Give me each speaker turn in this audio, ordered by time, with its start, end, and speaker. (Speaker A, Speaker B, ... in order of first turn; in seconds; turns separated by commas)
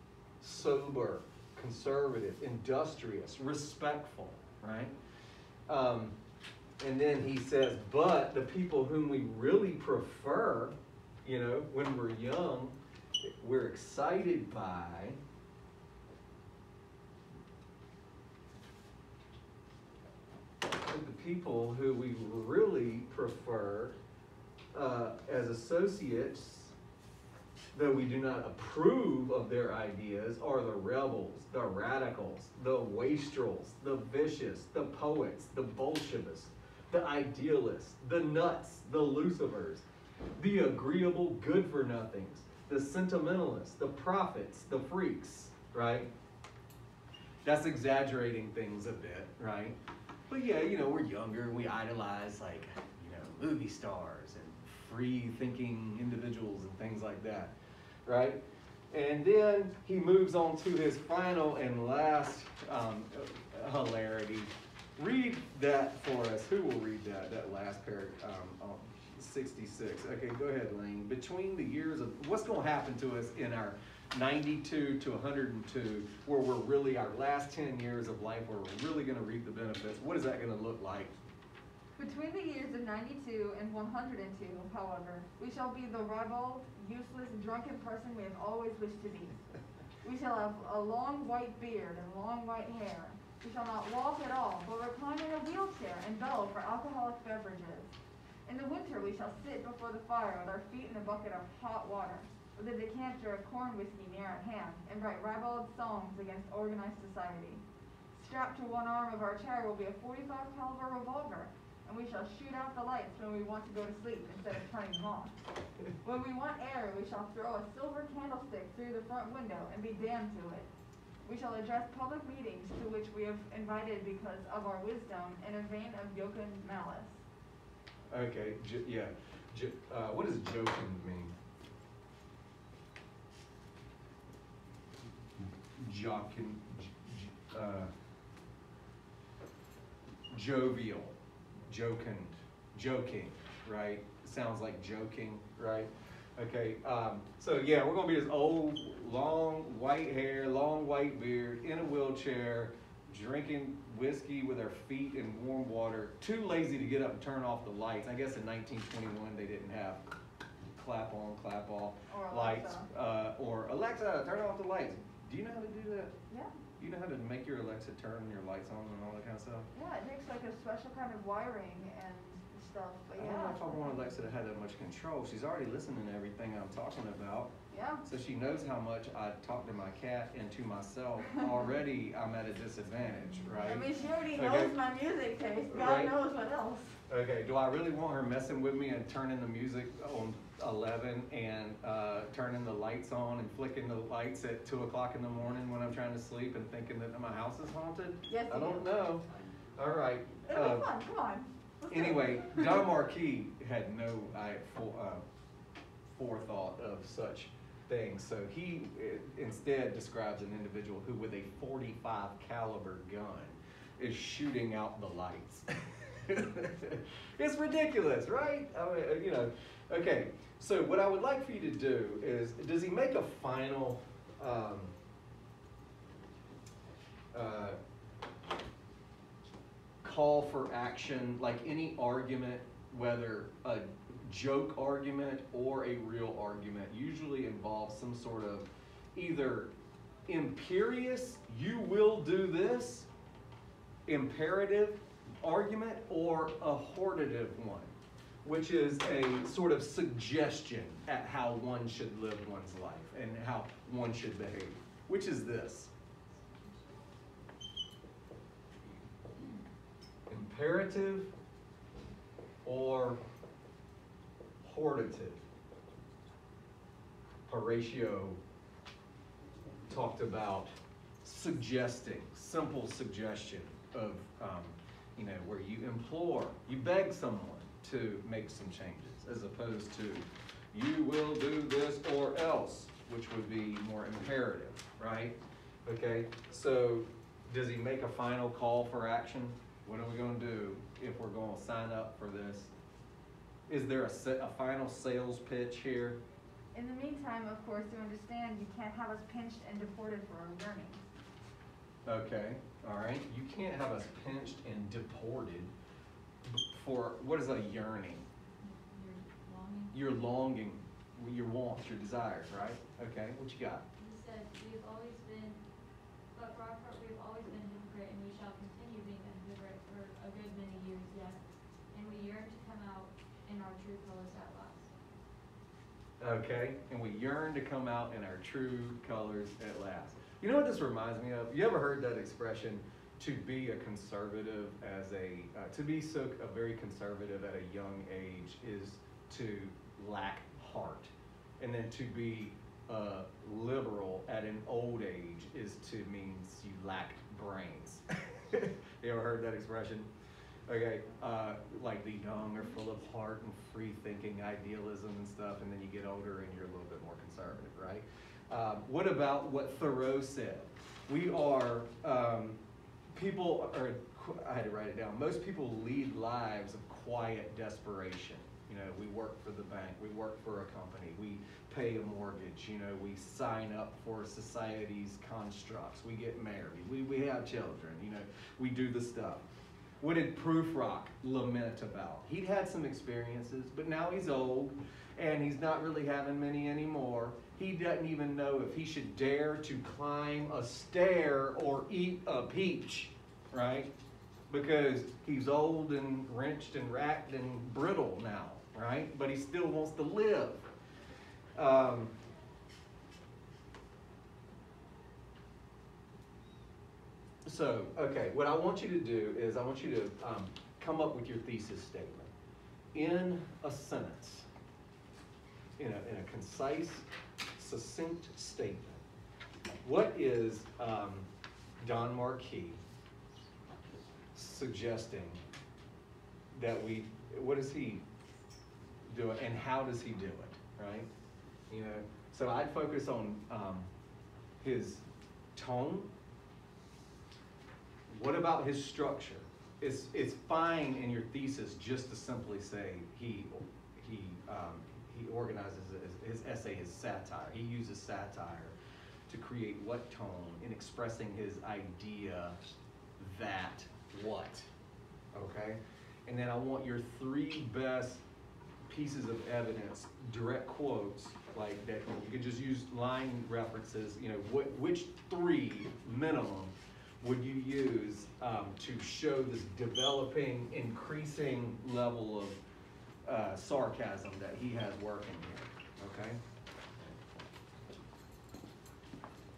Speaker A: 0.4-4.9, Speaker A: 5.7-6.2, Speaker A: 6.8-15.2, Speaker A: 20.8-24.0, Speaker A: 24.7-26.7, Speaker A: 27.7-39.8, Speaker A: 40.4-46.1, Speaker A: 47.4-49.8, Speaker A: 50.3-57.5, Speaker A: 58.0-81.1, Speaker B: 82.0-89.3, Speaker B: 90.0-97.9, Speaker B: 98.5-107.6, Speaker B: 108.1-115.3, Speaker B: 116.0-120.7, Speaker B: 121.2-127.2, Speaker A: 128.1-131.3, Speaker A: 135.6-137.9, Speaker A: 140.3-160.0, Speaker A: 160.8-166.1, Speaker B: 162.1-162.8, Speaker A: 166.8-169.7, Speaker B: 169.7-173.9, Speaker A: 173.2-177.5, Speaker B: 177.7-178.0, Speaker A: 178.0-184.7, Speaker B: 183.6-186.9, Speaker A: 185.7-186.1, Speaker A: 187.1-200.9, Speaker B: 198.3-198.8, Speaker B: 200.5-202.8, Speaker A: 201.9-205.2, Speaker A: 206.1-224.9, Speaker A: 227.3-227.8, Speaker A: 230.0-239.7, Speaker A: 240.3-243.1, Speaker A: 244.1-247.9, Speaker A: 248.4-255.9, Speaker A: 260.3-261.3, Speaker A: 262.6-263.2, Speaker A: 264.6-265.4, Speaker A: 267.5-268.4, Speaker A: 269.9-292.7, Speaker A: 293.7-296.2, Speaker B: 296.7-301.0, Speaker A: 302.1-305.7, Speaker A: 306.4-308.2, Speaker C: 308.6-309.9, Speaker A: 309.9-313.8, Speaker C: 314.0-315.6, Speaker C: 316.3-321.4, Speaker C: 321.9-324.9, Speaker A: 326.2-350.1, Speaker A: 350.7-362.6, Speaker A: 363.1-379.4, Speaker A: 380.0-393.9, Speaker A: 394.5-400.7, Speaker A: 401.6-402.1, Speaker A: 407.4-412.3, Speaker A: 412.9-414.5, Speaker A: 415.8-419.0, Speaker A: 419.8-421.3, Speaker A: 421.8-422.8, Speaker A: 424.3-425.4, Speaker A: 426.5-428.0, Speaker A: 429.1-431.1, Speaker A: 431.7-433.9, Speaker A: 434.6-435.0, Speaker A: 435.5-436.1, Speaker A: 438.1-448.7, Speaker A: 449.3-452.6, Speaker A: 453.2-454.7, Speaker A: 455.3-458.2, Speaker A: 458.9-472.6, Speaker A: 473.2-476.4